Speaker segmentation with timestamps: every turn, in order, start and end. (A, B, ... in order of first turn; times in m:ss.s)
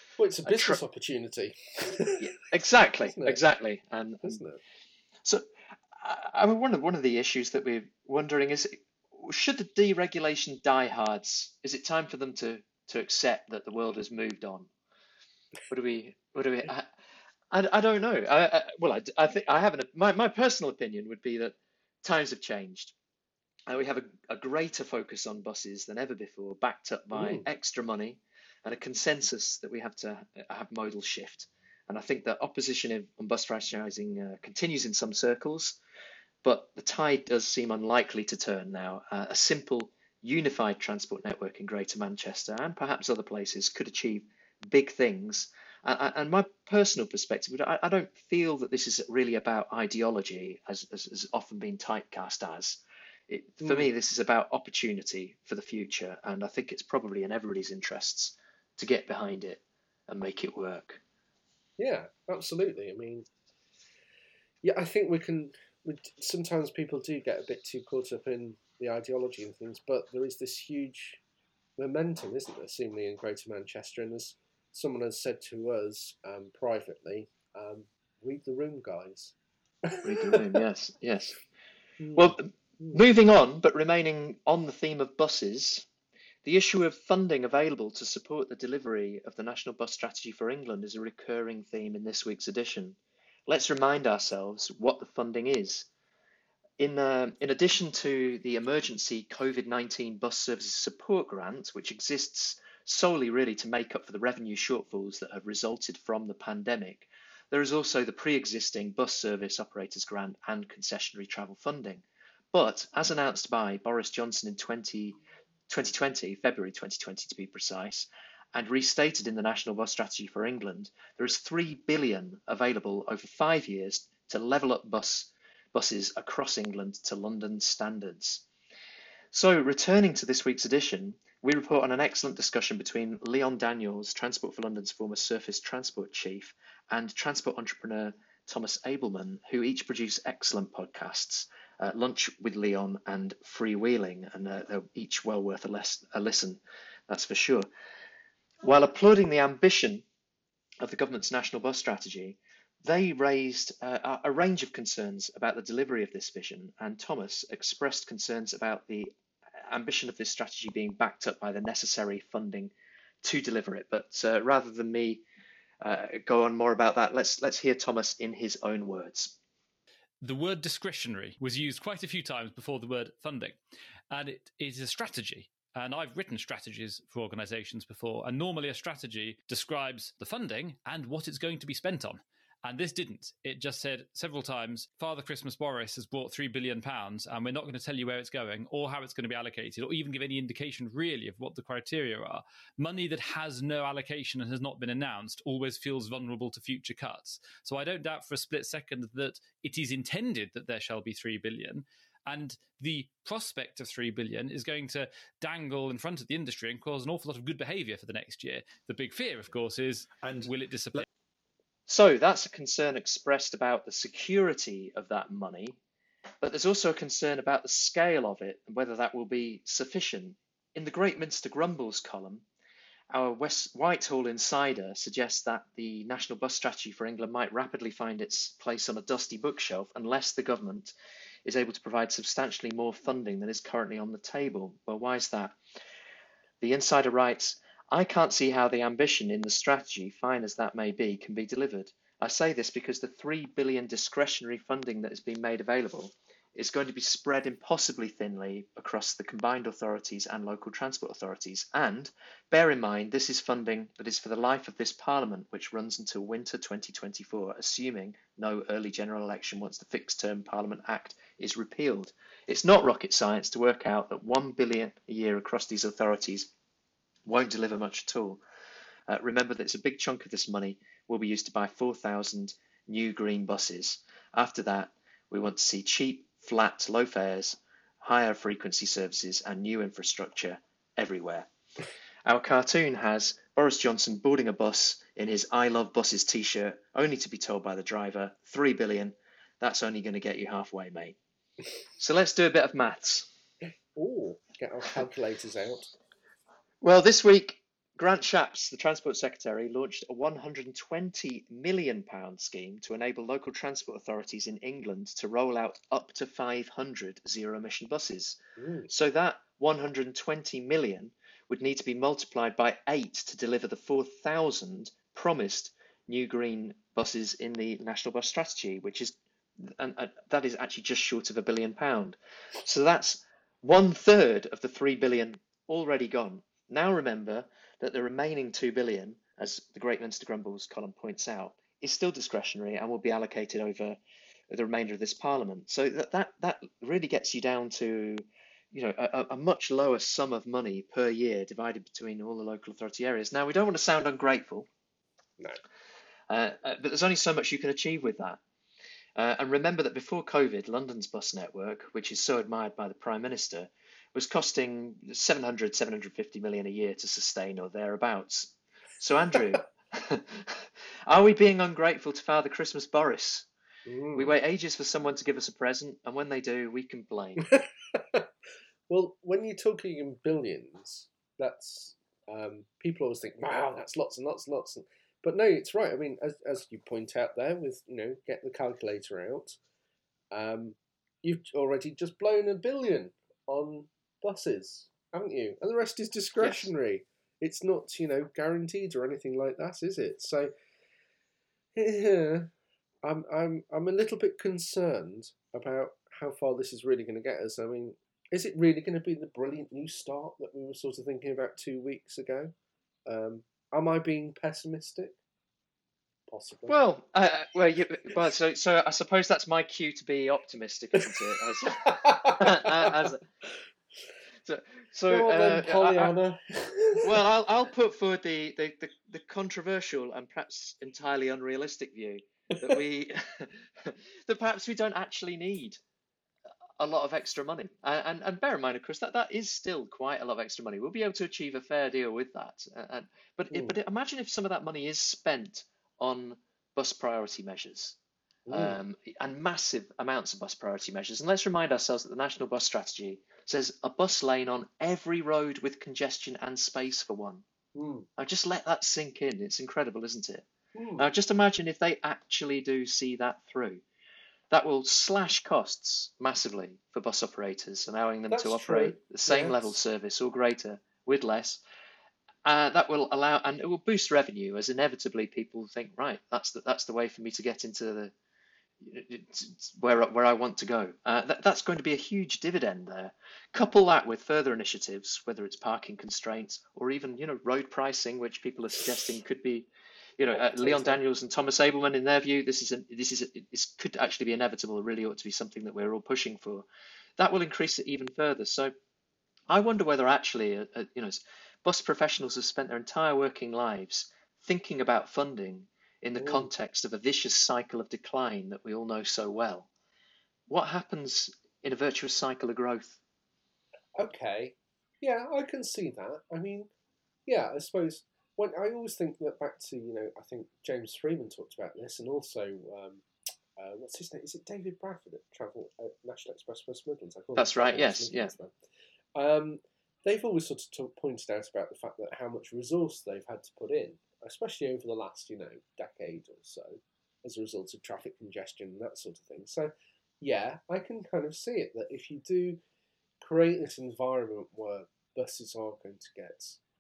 0:00.2-0:02.2 A
0:00.4-0:00.8 B
0:02.2-0:04.4 B
0:03.1-0:03.4 A
0:04.2-0:04.6 A
0:06.0-0:14.7 B
0:15.7-0:16.9 B
0:17.5-0:22.9 B
0:23.7-0:35.8 B
0:27.1-0:27.4 A
0:36.4-1:01.0 B
0:53.6-0:53.9 A
1:01.8-1:03.3 A
1:04.6-1:11.2 A
1:11.8-1:20.4 A
1:20.0-1:21.4 B
1:22.0-1:23.0 A
1:22.1-1:25.9 B
1:26.4-1:35.9 B
1:36.8-1:55.2 B
1:55.7-2:08.4 B
2:09.3-2:27.7 B
2:28.6-2:30.0 B
2:30.8-2:39.1 B
2:39.6-2:42.7 B
2:43.2-2:45.2 B
2:45.8-2:49.4 B
2:50.2-2:53.6 C
2:54.1-3:31.0 C
3:31.9-3:35.8 B
3:36.4-3:42.4 B
3:43.1-3:50.9 B
3:51.4-3:55.6 B
3:56.6-4:26.5 B
4:27.2-4:28.4 B
4:29.1-4:41.5 B
4:42.2-4:51.2 B
4:52.0-4:53.3 B
4:54.0-4:55.9 A
4:56.8-5:08.4 B
5:08.6-5:08.9 A
5:08.9-5:34.0 B
5:34.5-5:44.7 B
5:46.3-5:48.4 B
5:49.2-6:03.5 B
6:03.9-6:04.3 A
6:04.1-6:07.5 B
6:07.4-6:08.3 A
6:08.9-6:19.6 A
6:20.3-6:30.5 A
6:26.4-6:26.7 B
6:31.8-6:32.5 A
6:33.0-6:42.5 A
6:43.0-6:45.2 A
6:46.3-6:46.7 A
6:46.7-6:53.2 B
6:51.8-6:53.0 A
6:54.5-6:56.1 B
6:55.1-6:57.2 A
6:57.0-7:05.8 B
7:06.8-7:18.0 B
7:13.5-7:13.8 A
7:18.5-7:18.8 A
7:18.5-7:27.4 B
7:27.8-7:28.1 A
7:28.2-7:30.5 B
7:30.7-7:31.0 A
7:31.0-7:33.8 B
7:34.5-7:41.6 B
7:38.3-7:39.8 A
7:42.4-7:48.1 B
7:48.8-8:06.7 B
8:00.3-8:01.0 A
8:07.2-8:08.7 B
8:09.5-8:19.7 B
8:16.2-8:16.5 A
8:20.5-8:23.0 B
8:24.0-8:26.7 A
8:27.2-8:33.0 A
8:33.6-8:38.5 A
8:37.4-8:38.3 B
8:39.2-8:52.6 A
8:53.2-8:56.6 A